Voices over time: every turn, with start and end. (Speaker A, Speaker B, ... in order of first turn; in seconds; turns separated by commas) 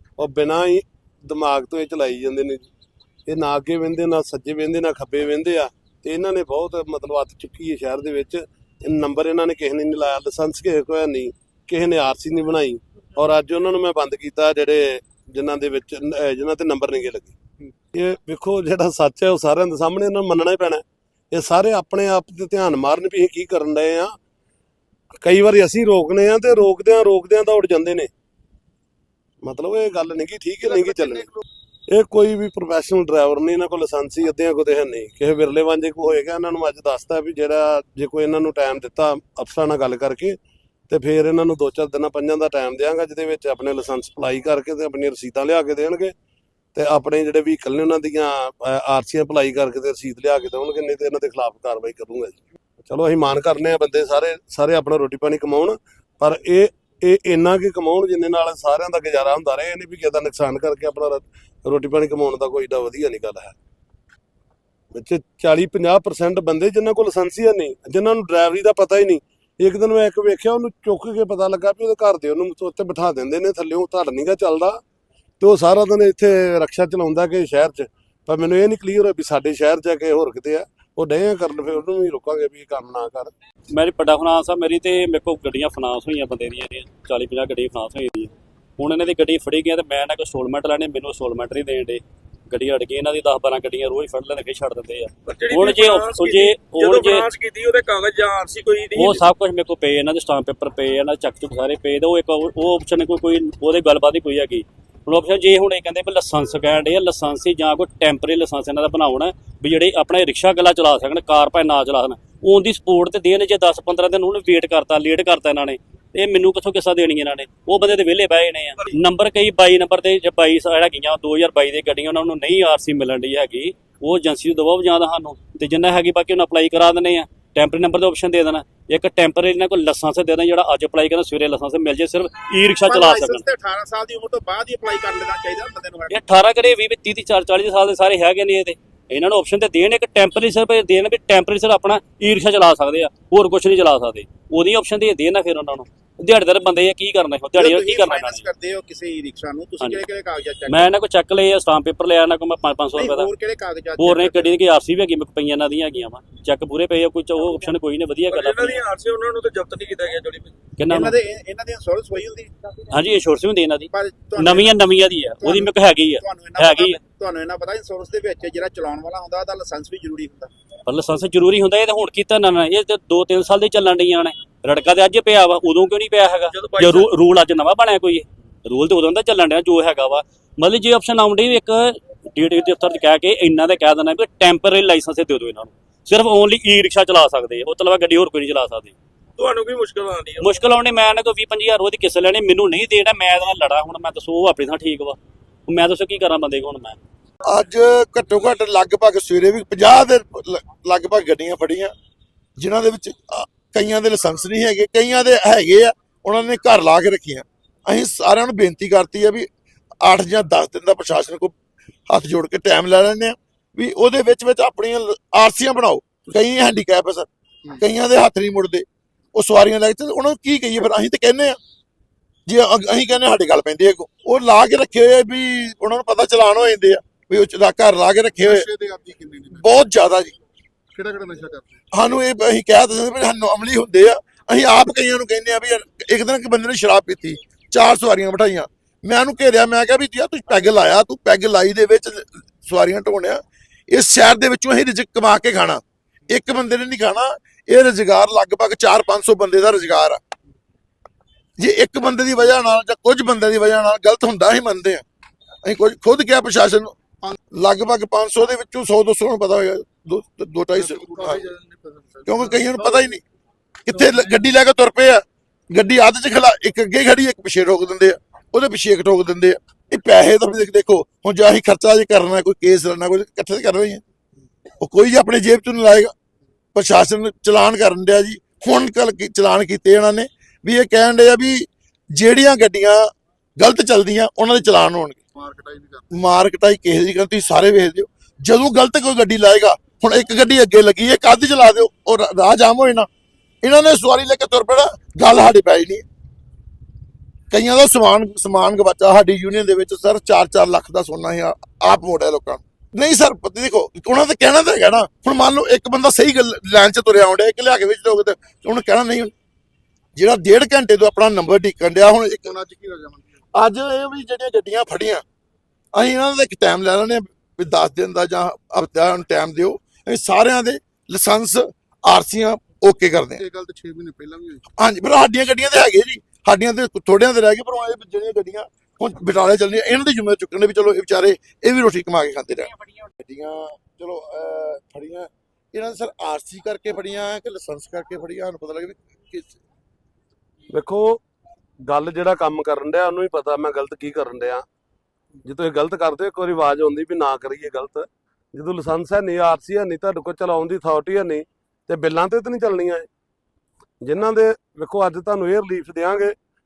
Speaker A: 0.2-2.7, Speaker A: 3.3-17.4, Speaker A: 17.9-24.1, Speaker A: 25.2-28.1, Speaker A: 29.4-31.3, Speaker A: 31.9-40.4, Speaker A: 40.9-46.1, Speaker A: 46.7-63.5, Speaker A: 64.9-74.8, Speaker A: 75.4-83.3, Speaker B: 83.7-97.3, Speaker C: 95.2-99.2, Speaker B: 98.9-133.4, Speaker D: 132.9-136.2, Speaker B: 136.1-148.4, Speaker D: 147.6-150.7, Speaker B: 149.8-150.0, Speaker B: 150.7-153.3, Speaker D: 153.0-154.5, Speaker B: 154.0-158.8, Speaker C: 158.3-160.5, Speaker B: 160.8-161.2, Speaker D: 161.0-162.5, Speaker B: 162.9-167.0, Speaker D: 163.9-164.7, Speaker D: 165.4-165.7, Speaker D: 166.4-170.5, Speaker B: 170.8-188.9, Speaker C: 176.5-177.1, Speaker C: 189.4-190.6, Speaker B: 190.4-197.0, Speaker E: 197.5-201.9, Speaker E: 202.6-209.5, Speaker E: 210.0-211.5, Speaker E: 212.1-221.6, Speaker E: 222.5-228.7, Speaker F: 228.4-229.7, Speaker E: 229.5-230.3, Speaker F: 230.9-231.8, Speaker E: 231.9-250.2, Speaker E: 251.6-255.0, Speaker E: 255.6-256.9, Speaker E: 257.5-261.5, Speaker F: 260.7-263.2, Speaker E: 262.2-263.2, Speaker E: 263.9-274.0, Speaker F: 263.9-264.4, Speaker E: 274.8-276.1, Speaker E: 276.7-285.2, Speaker F: 285.4-286.0, Speaker E: 286.1-293.1, Speaker E: 293.6-296.0, Speaker E: 297.5-309.3, Speaker E: 310.1-312.5, Speaker F: 312.4-313.3, Speaker E: 313.6-315.2, Speaker E: 315.9-323.4, Speaker F: 323.4-324.6, Speaker E: 324.8-339.6, Speaker A: 340.7-341.2, Speaker A: 341.9-344.6, Speaker A: 345.4-353.1, Speaker A: 354.0-356.4